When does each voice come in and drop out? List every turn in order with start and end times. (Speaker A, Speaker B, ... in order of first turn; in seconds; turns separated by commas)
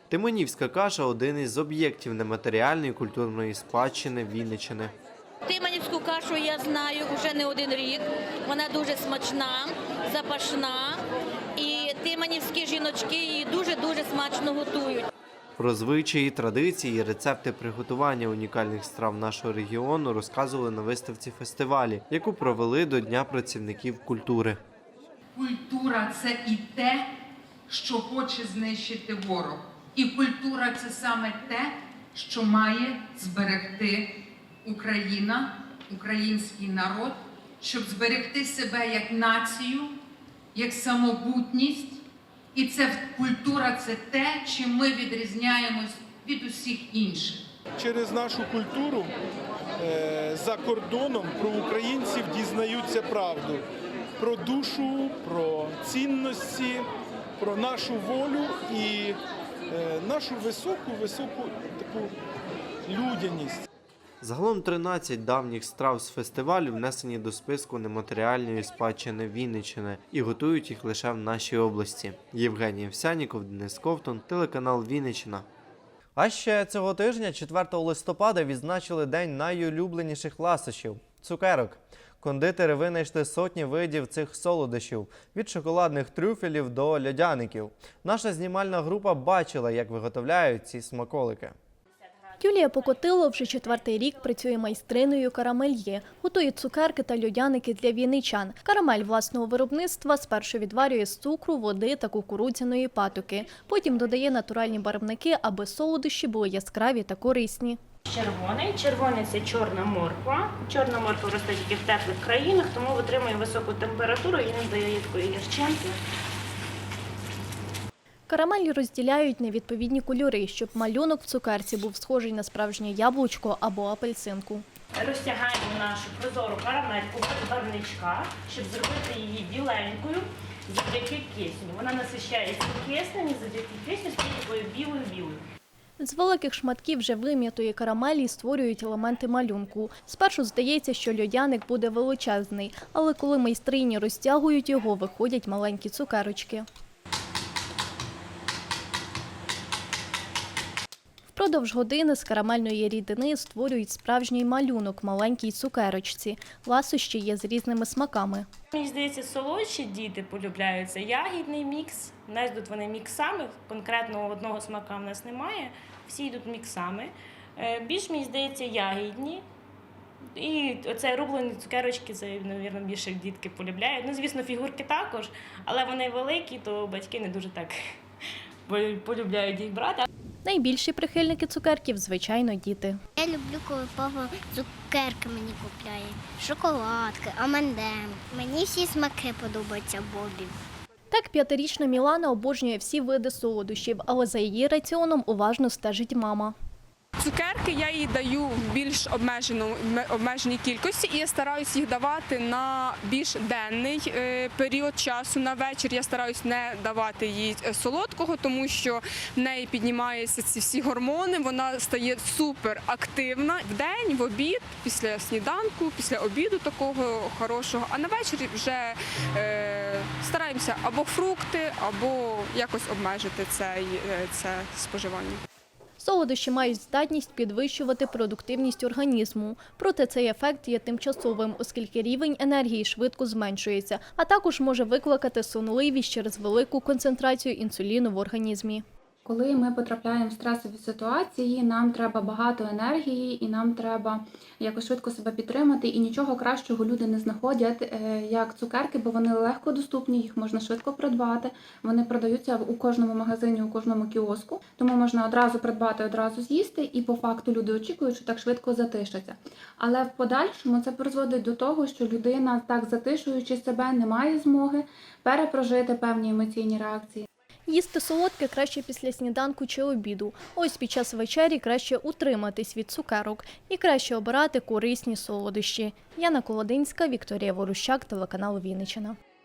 Speaker A: 0.1-4.9, Speaker B: 5.4-11.0, Speaker B: 11.6-15.1, Speaker A: 15.6-24.6, Speaker C: 25.4-27.1, Speaker C: 27.7-34.1, Speaker C: 34.6-39.9, Speaker C: 40.5-42.0, Speaker C: 42.5-47.4, Speaker D: 47.8-49.1, Speaker D: 49.8-53.6, Speaker D: 54.2-56.9, Speaker D: 57.4-59.2, Speaker D: 59.7-62.1, Speaker D: 62.9-63.6, Speaker A: 64.2-75.5, Speaker A: 76.2-91.5, Speaker E: 92.4-107.8, Speaker F: 108.1-116.0, Speaker E: 118.3-124.6, Speaker F: 125.0-135.4, Speaker E: 136.0-146.7, Speaker E: 151.3-158.5, Speaker F: 158.7-169.4, Speaker F: 170.3-177.7, Speaker F: 178.7-180.1, Speaker E: 180.4-183.0, Speaker G: 183.2-190.5, Speaker E: 191.1-196.6, Speaker H: 197.2-225.4, Speaker E: 226.0-238.8, Speaker I: 239.2-267.2, Speaker E: 267.7-279.2